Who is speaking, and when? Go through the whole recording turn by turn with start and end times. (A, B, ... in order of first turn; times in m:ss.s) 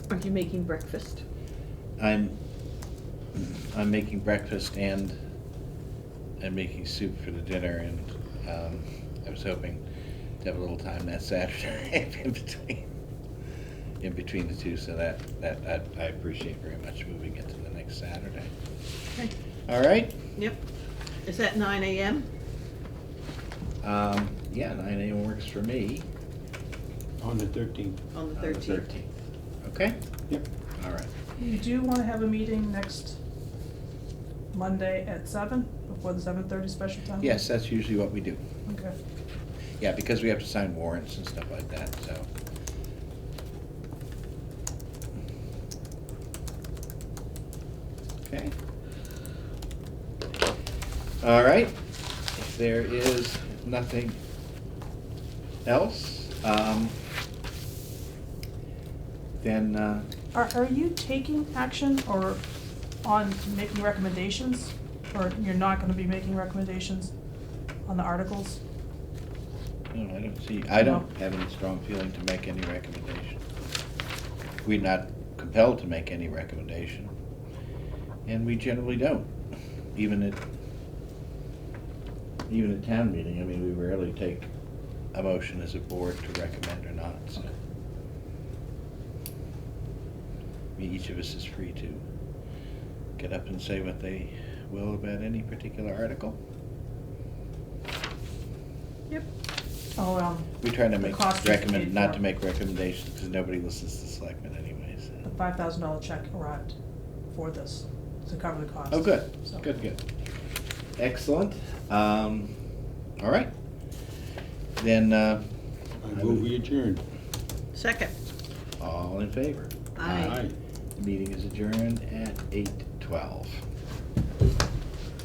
0:00.1-0:01.2 A
0:02.0-0:02.4 B
0:03.3-0:05.2 B
0:06.4-0:09.8 B
0:10.4-0:12.9 B
0:14.0-0:18.5 B
0:19.7-0:20.2 B
0:21.2-0:22.2 A
0:23.8-0:26.0 B
0:27.2-0:28.0 C
0:28.1-0:28.8 A
0:28.4-0:29.1 B
0:29.6-0:30.0 B
0:30.8-0:31.1 B
0:31.4-0:33.2 D
0:34.5-0:37.4 D
0:37.2-0:38.4 B
0:38.6-0:38.9 D
0:39.8-0:42.3 B
0:48.2-0:48.5 B
0:51.2-0:51.8 B
0:52.3-0:54.2 B
0:55.6-0:57.0 B
0:59.4-1:00.1 B
1:00.3-1:02.4 D
1:03.0-1:07.1 D
1:07.8-1:08.6 D
1:09.9-1:13.4 B
1:10.8-1:11.0 D
1:14.6-1:17.1 B
1:18.2-1:19.3 B
1:19.9-1:20.4 B
1:22.5-1:24.5 B
1:25.1-1:27.5 B
1:30.8-1:32.0 B
1:33.2-1:36.4 B
1:40.0-1:42.2 D
1:40.6-1:45.2 B
1:45.2-1:46.7 D
1:47.3-1:49.6 D
1:48.9-1:50.0 B
1:51.0-1:52.5 B
1:53.2-1:53.5 B
1:54.8-1:55.4 B
1:56.0-1:57.0 C
1:56.1-1:56.5 B
1:57.7-1:58.1 A
1:58.8-2:00.4 B
2:00.0-2:00.4 A
2:00.1-2:00.5 C
2:01.0-2:03.6 B